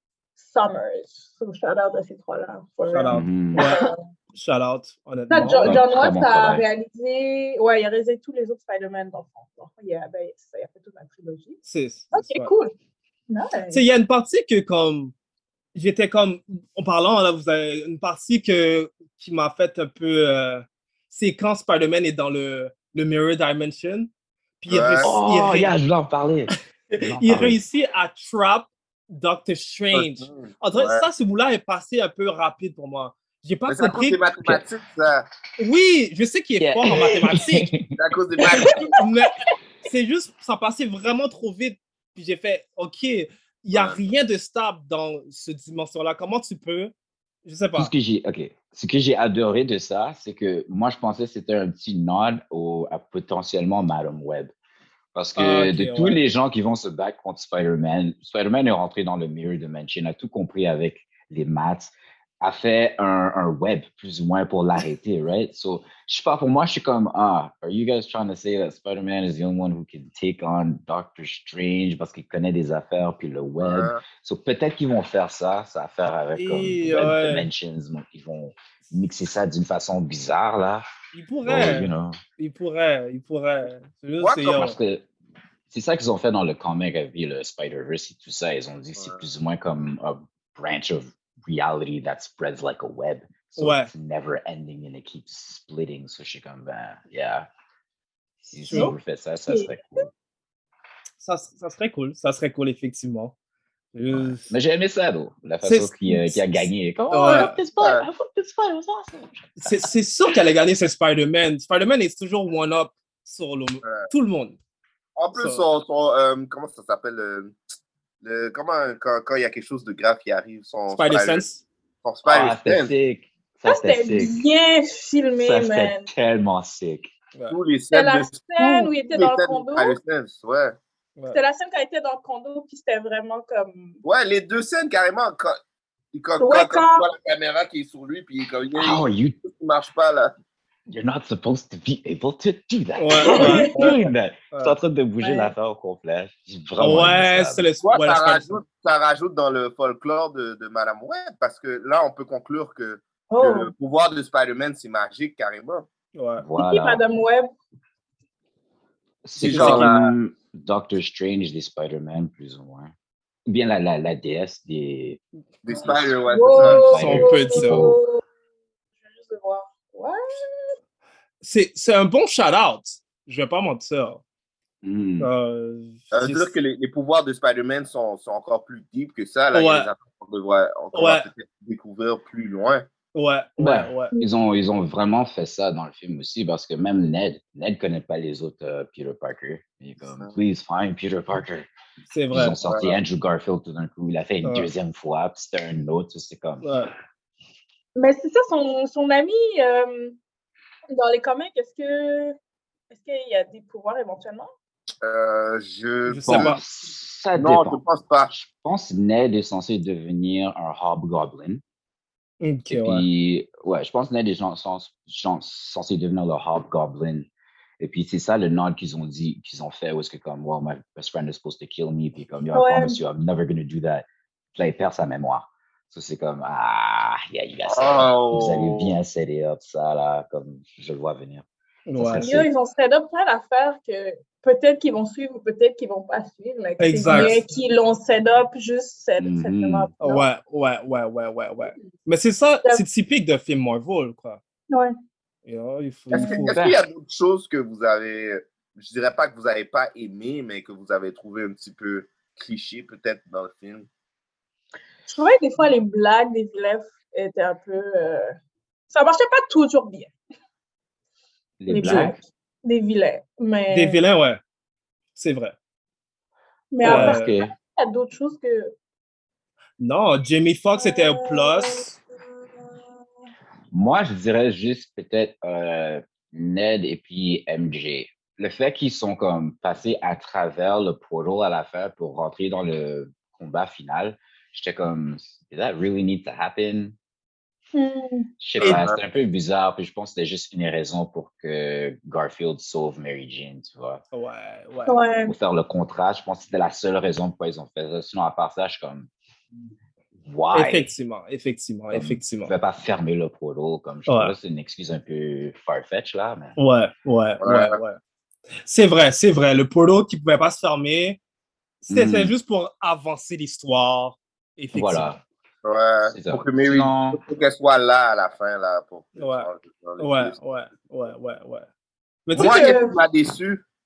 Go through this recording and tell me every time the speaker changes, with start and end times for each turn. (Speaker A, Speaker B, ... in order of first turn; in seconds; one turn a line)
Speaker A: 0.4-4.0
Speaker B: 2.9-5.8
Speaker C: 3.1-3.7
Speaker A: 5.3-11.6
Speaker C: 5.5-6.7
Speaker B: 11.7-12.5
Speaker A: 12.1-12.7
Speaker A: 13.3-13.8
Speaker B: 13.7-15.1
Speaker B: 15.7-24.1
Speaker B: 24.6-25.7
Speaker D: 24.7-25.1
Speaker C: 25.0-27.6
Speaker B: 26.9-34.2
Speaker D: 29.9-31.0
Speaker D: 33.7-35.2
Speaker B: 35.6-37.7
Speaker C: 36.6-37.9
Speaker D: 38.0-38.9
Speaker A: 38.4-39.0
Speaker B: 39.0-46.9
Speaker D: 43.7-44.0
Speaker B: 47.4-47.9
Speaker C: 47.7-54.5
Speaker C: 55.1-80.8
Speaker B: 55.4-56.2
Speaker D: 73.6-74.0
Speaker B: 76.3-77.5
Speaker B: 81.1-84.8
Speaker C: 81.5-82.2
Speaker D: 84.2-84.6
Speaker C: 84.5-85.0
Speaker C: 85.7-97.5
Speaker B: 93.6-93.9
Speaker C: 98.5-100.1
Speaker B: 98.6-98.9
Speaker A: 99.5-99.7
Speaker B: 101.2-103.3
Speaker B: 103.9-104.5
Speaker C: 104.1-109.9
Speaker B: 105.6-107.6
Speaker D: 107.8-108.1
Speaker B: 109.6-114.6
Speaker D: 115.2-117.5
Speaker B: 115.3-115.6
Speaker D: 118.2-121.4
Speaker B: 120.9-121.6
Speaker D: 122.0-122.9
Speaker C: 122.2-124.3
Speaker A: 123.6-126.1
Speaker C: 125.3-127.1
Speaker D: 127.5-130.8
Speaker A: 127.9-130.0
Speaker A: 131.3-134.0
Speaker D: 134.0-135.6
Speaker D: 136.1-140.3
Speaker A: 136.4-137.1
Speaker C: 138.7-139.4
Speaker C: 140.9-147.6
Speaker B: 143.0-143.9
Speaker A: 143.2-143.9
Speaker B: 144.5-144.8
Speaker A: 145.2-145.5
Speaker B: 146.8-148.6
Speaker D: 147.8-155.9
Speaker A: 153.3-153.7
Speaker B: 156.1-156.4
Speaker C: 156.4-157.0
Speaker A: 156.6-157.5
Speaker C: 159.2-162.9
Speaker B: 159.4-159.9
Speaker D: 159.4-160.1
Speaker C: 163.5-165.2
Speaker D: 165.6-167.0
Speaker C: 165.7-168.0
Speaker A: 166.3-168.2
Speaker B: 166.8-167.8
Speaker A: 169.0-170.7
Speaker B: 171.4-174.2
Speaker C: 174.8-175.3
Speaker B: 175.2-176.5
Speaker D: 176.1-182.9
Speaker B: 179.5-179.9
Speaker B: 180.9-181.3
Speaker B: 183.1-184.1
Speaker C: 183.6-191.7
Speaker B: 192.1-192.6
Speaker C: 192.3-196.7
Speaker D: 192.6-192.9
Speaker B: 194.4-194.7
Speaker B: 196.6-196.9
Speaker A: 197.9-200.2
Speaker A: 200.9-202.3
Speaker A: 202.9-204.5
Speaker D: 205.0-206.6
Speaker B: 206.1-206.6
Speaker C: 206.3-211.6
Speaker D: 207.4-208.3
Speaker B: 212.4-213.1
Speaker C: 212.7-217.3
Speaker C: 217.8-231.4
Speaker A: 222.5-223.0
Speaker D: 227.7-229.0
Speaker B: 231.9-232.2
Speaker C: 232.0-232.5
Speaker A: 232.2-240.3
Speaker B: 236.8-237.4
Speaker C: 237.1-237.3
Speaker C: 239.2-239.9
Speaker B: 240.0-244.4
Speaker A: 244.7-244.9
Speaker B: 245.4-246.6
Speaker D: 246.1-253.9
Speaker C: 246.5-246.8
Speaker A: 255.1-258.4
Speaker A: 258.9-260.1
Speaker C: 261.6-262.2
Speaker A: 261.7-264.0
Speaker B: 263.7-264.4
Speaker B: 265.1-265.5
Speaker A: 266.7-268.7
Speaker C: 266.8-267.5
Speaker B: 266.8-267.2
Speaker B: 269.8-271.9
Speaker A: 270.8-271.9
Speaker C: 273.7-286.9
Speaker A: 287.7-288.3
Speaker C: 288.4-294.0
Speaker D: 288.6-289.0
Speaker B: 294.1-295.0
Speaker A: 294.9-295.3
Speaker C: 295.2-299.1
Speaker C: 300.2-300.9
Speaker B: 300.5-302.5
Speaker C: 301.9-306.6
Speaker B: 304.1-304.3
Speaker B: 306.6-308.0
Speaker D: 307.4-307.8
Speaker B: 308.6-311.2
Speaker B: 311.8-315.1
Speaker C: 311.9-312.3
Speaker C: 314.7-315.2
Speaker D: 315.6-320.4
Speaker C: 316.1-317.2
Speaker B: 319.2-319.5
Speaker B: 320.0-321.7
Speaker B: 322.2-322.7
Speaker D: 322.3-323.6
Speaker A: 322.4-323.0